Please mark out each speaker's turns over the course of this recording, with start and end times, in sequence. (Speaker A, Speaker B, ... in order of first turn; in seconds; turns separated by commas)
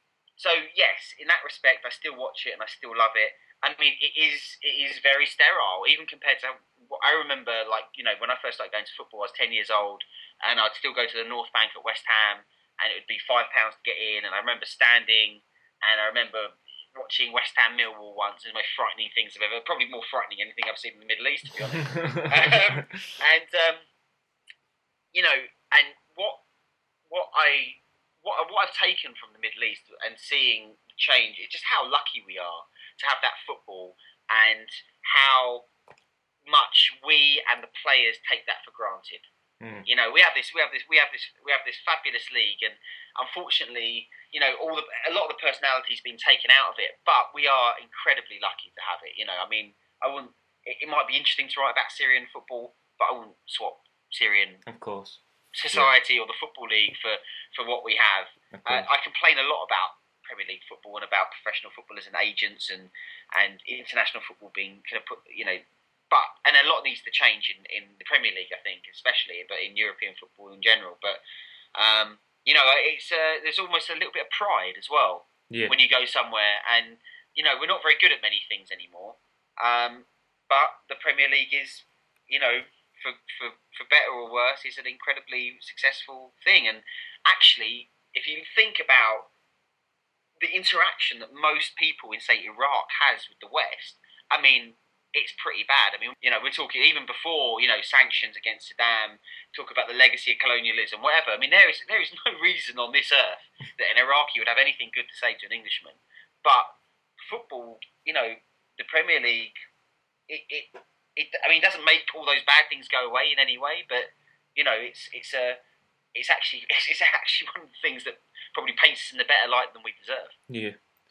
Speaker A: 0.4-23.8, Speaker B: 21.8-22.9, Speaker A: 25.1-26.4, Speaker A: 27.1-35.7, Speaker A: 36.5-39.3, Speaker B: 39.6-39.9, Speaker A: 39.9-54.6, Speaker B: 54.7-55.2, Speaker A: 55.5-71.2, Speaker B: 58.5-58.9, Speaker A: 71.8-89.3, Speaker A: 90.4-109.5, Speaker A: 110.3-115.6, Speaker A: 116.2-120.3, Speaker B: 120.5-120.8